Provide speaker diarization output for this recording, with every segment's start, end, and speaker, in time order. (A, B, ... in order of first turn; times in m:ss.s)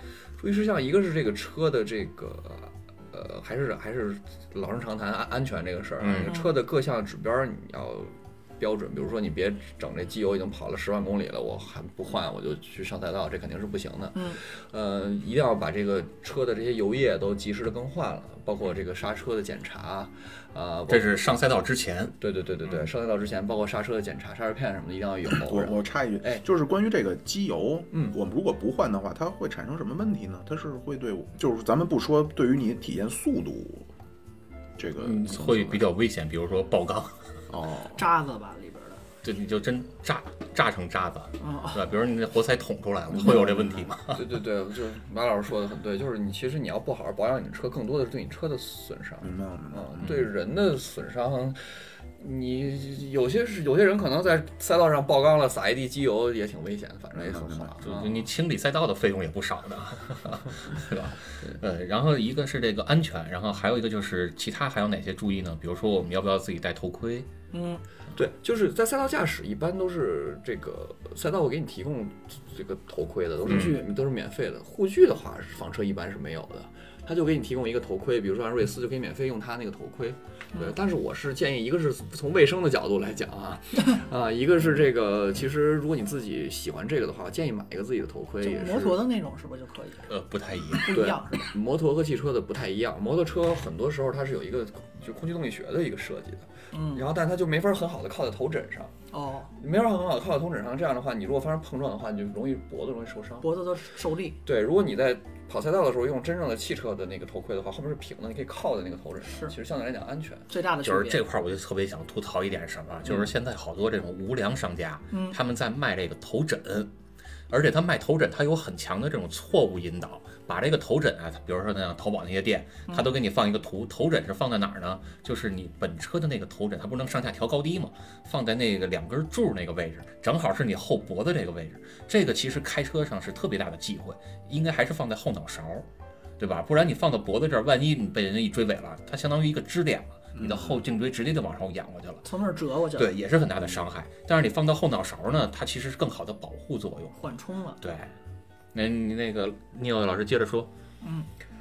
0:00.4-0:21.2 A
0:06.0-0:06.4 B
0:06.2-0:06.5 C
0:14.1-0:14.4 C
0:20.9-0:22.2 B
0:22.2-0:26.4 A
0:25.4-0:33.9 D
0:34.8-0:35.9 D
0:35.0-0:37.4 B
0:37.5-0:38.0 D
0:37.8-0:39.0 C
0:39.2-0:44.2 B
0:41.4-0:41.8 C
0:43.3-0:43.5 C
0:44.1-0:51.6 A
0:49.2-0:50.1 D
0:52.2-0:58.2 A
0:57.2-0:57.7 D
0:57.8-1:07.3 B
1:07.5-1:07.8 C
1:08.1-1:29.0 A
1:13.4-1:13.8 C
1:13.5-1:13.8 B
1:28.4-1:30.1 C
1:30.1-1:31.0 B
1:30.7-1:31.5 C
1:30.9-1:38.9 A
1:36.7-1:37.1 C
1:39.1-1:39.5 C
1:39.5-1:43.6 A
1:43.4-1:44.4 C
1:44.4-1:50.5 A
1:49.2-1:49.5 C
1:50.5-1:51.2 C
1:50.8-1:56.9 B
1:55.1-1:55.4 C
1:57.5-2:15.8 B
2:16.4-2:22.2 B
2:20.3-2:20.8 D
2:22.2-2:23.2 C
2:23.0-2:27.2 B
2:27.2-2:27.8 C
2:27.8-2:28.1 B
2:28.7-2:30.7 B
2:31.0-2:31.3 C